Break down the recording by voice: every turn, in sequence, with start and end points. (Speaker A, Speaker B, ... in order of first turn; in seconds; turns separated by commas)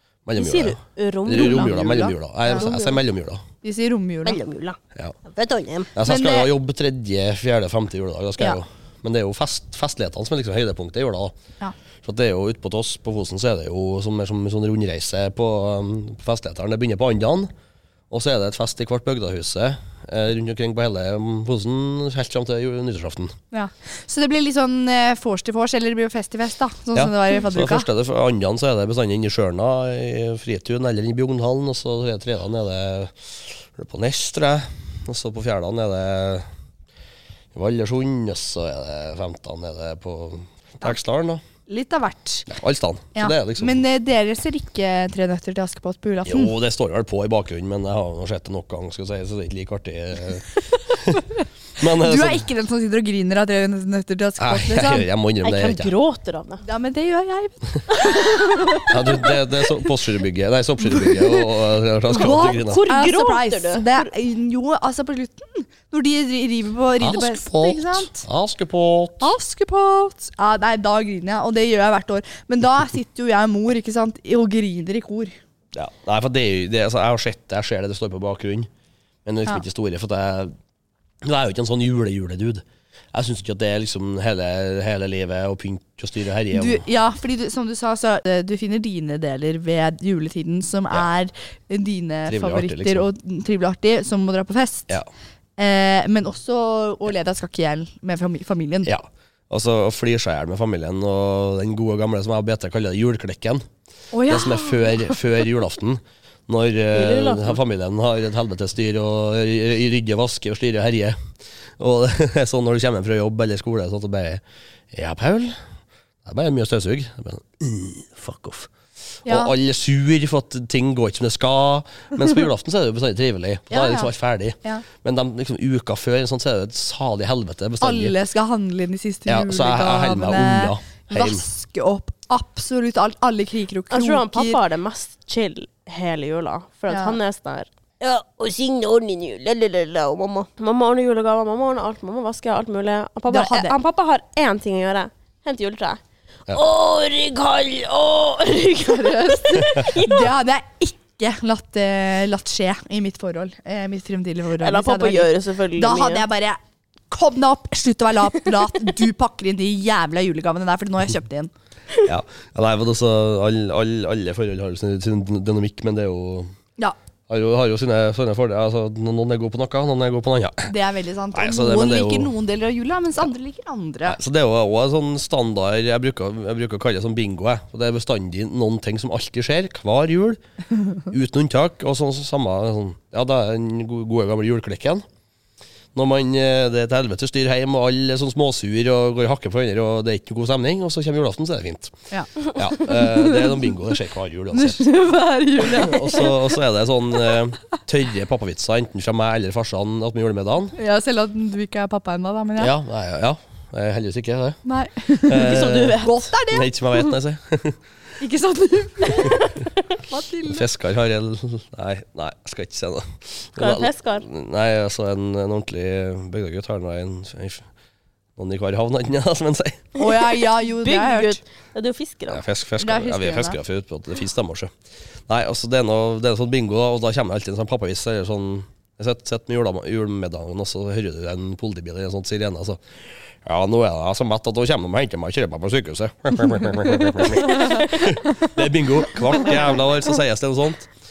Speaker A: 0.3-3.4, Speaker B: 0.4-1.9, Speaker C: 1.3-2.9, Speaker C: 3.6-4.4, Speaker B: 4.2-5.9, Speaker A: 5.9-11.3, Speaker C: 6.0-6.5, Speaker A: 12.0-17.5, Speaker A: 18.1-23.4, Speaker C: 23.5-27.9, Speaker A: 26.9-36.5, Speaker A: 37.5-41.4, Speaker C: 41.7-42.5, Speaker A: 42.5-43.8, Speaker C: 43.1-46.5, Speaker A: 46.2-51.2, Speaker A: 51.8-52.5, Speaker C: 51.8-55.1, Speaker A: 54.4-55.9, Speaker B: 55.4-56.6, Speaker C: 56.6-59.4, Speaker B: 57.9-59.0, Speaker A: 58.9-62.8, Speaker C: 60.9-61.5, Speaker C: 62.1-68.2, Speaker B: 62.1-64.1, Speaker A: 67.0-69.3, Speaker C: 69.2-75.3, Speaker A: 75.7-78.7, Speaker A: 79.2-80.5, Speaker A: 81.2-86.8, Speaker C: 86.5-95.0, Speaker A: 92.3-93.1, Speaker C: 95.6-98.9, Speaker A: 98.9-103.7, Speaker C: 104.1-105.2, Speaker A: 104.3-111.2, Speaker B: 106.9-107.6, Speaker A: 111.8-115.6, Speaker A: 116.2-118.7, Speaker A: 119.2-128.2, Speaker C: 119.3-119.5, Speaker C: 123.7-124.1, Speaker C: 127.8-134.6, Speaker A: 129.3-131.4, Speaker B: 133.9-150.3, Speaker C: 136.9-137.2, Speaker C: 143.3-143.8, Speaker C: 148.8-156.6, Speaker B: 154.6-156.2, Speaker C: 157.1-161.5, Speaker A: 162.0-166.5, Speaker A: 167.3-170.7, Speaker C: 170.7-174.2, Speaker A: 171.3-172.3, Speaker A: 174.1-180.4, Speaker A: 181.1-185.0, Speaker A: 185.9-194.9, Speaker C: 192.1-193.8, Speaker C: 194.5-196.6, Speaker A: 195.6-200.8, Speaker C: 200.8-202.7, Speaker A: 202.6-204.6, Speaker C: 204.7-207.1, Speaker A: 205.2-207.8, Speaker B: 205.3-206.2, Speaker C: 208.2-210.7, Speaker A: 210.5-217.7, Speaker B: 213.6-214.2, Speaker A: 218.4-219.9, Speaker C: 220.0-221.4, Speaker B: 220.0-222.4, Speaker A: 222.3-224.7, Speaker C: 222.8-223.6, Speaker A: 225.3-240.9